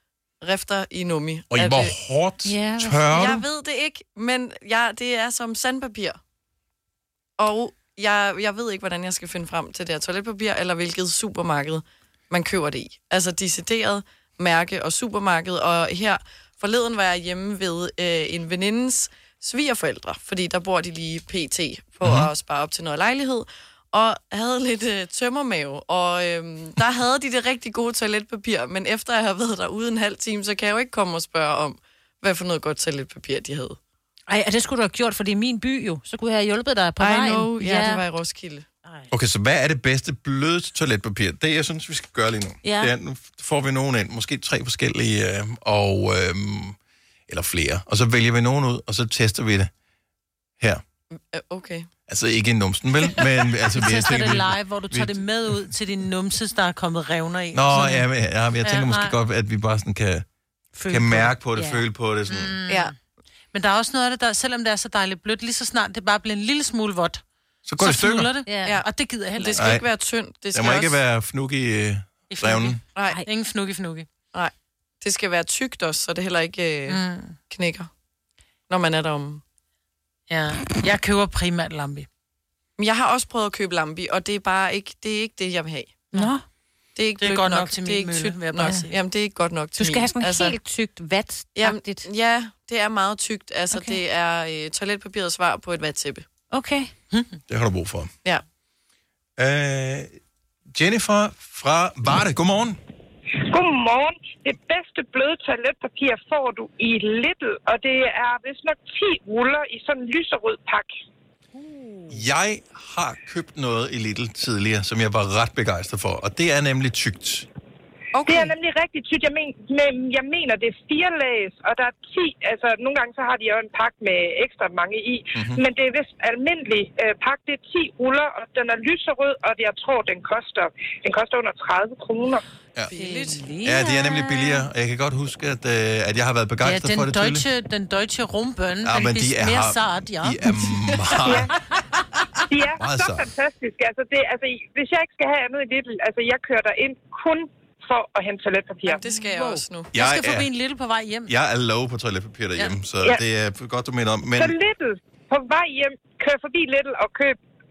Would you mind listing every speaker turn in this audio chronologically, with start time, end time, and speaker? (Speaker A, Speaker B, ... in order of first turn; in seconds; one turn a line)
Speaker A: 0.4-1.9
Speaker B: 1.5-3.4
Speaker C: 2.5-3.2
Speaker A: 3.1-6.2
Speaker A: 7.4-33.8
Speaker B: 22.0-22.3
Speaker C: 34.3-38.0
Speaker A: 37.0-38.7
Speaker B: 39.1-46.8
Speaker C: 42.6-42.9
Speaker B: 47.3-49.7
Speaker A: 51.1-51.9
Speaker B: 52.1-55.6
Speaker D: 53.8-58.0
Speaker B: 57.5-60.2
Speaker D: 58.6-59.1
Speaker D: 60.8-61.3
Speaker B: 60.9-62.6
Speaker C: 61.6-61.8
Speaker D: 62.3-62.9
Speaker A: 62.7-62.9
Speaker D: 63.5-67.2
Speaker B: 67.7-68.3
Speaker D: 67.8-69.7
Speaker C: 68.5-68.8
Speaker A: 68.6-71.0
Speaker B: 69.6-69.9
Speaker B: 70.5-72.8
Speaker D: 72.3-74.1
Speaker A: 73.0-73.2
Speaker A: 74.3-77.9
Speaker D: 76.9-77.4
Speaker A: 78.7-79.4
Speaker D: 80.3-82.1
Speaker A: 82.8-86.1
Speaker C: 86.2-86.4
Speaker A: 87.0-90.6
Speaker D: 87.2-88.9
Speaker C: 89.8-92.1
Speaker A: 91.5-96.2
Speaker C: 93.7-94.0
Speaker C: 96.5-96.9
Speaker B: 97.5-98.1
Speaker B: 99.4-100.2
Speaker B: 100.7-102.8
Speaker E: 103.4-110.9
Speaker B: 112.1-117.5
Speaker A: 118.1-118.5
Speaker E: 118.3-132.4
Speaker B: 125.3-125.6
Speaker A: 132.9-133.4
Speaker D: 132.9-134.5
Speaker B: 133.6-137.5
Speaker D: 136.6-140.4
Speaker B: 138.8-141.5
Speaker E: 142.5-149.0
Speaker B: 142.8-143.3
Speaker A: 148.9-149.9
Speaker D: 149.2-151.3
Speaker B: 149.9-150.5
Speaker B: 151.3-154.5
Speaker E: 154.4-157.4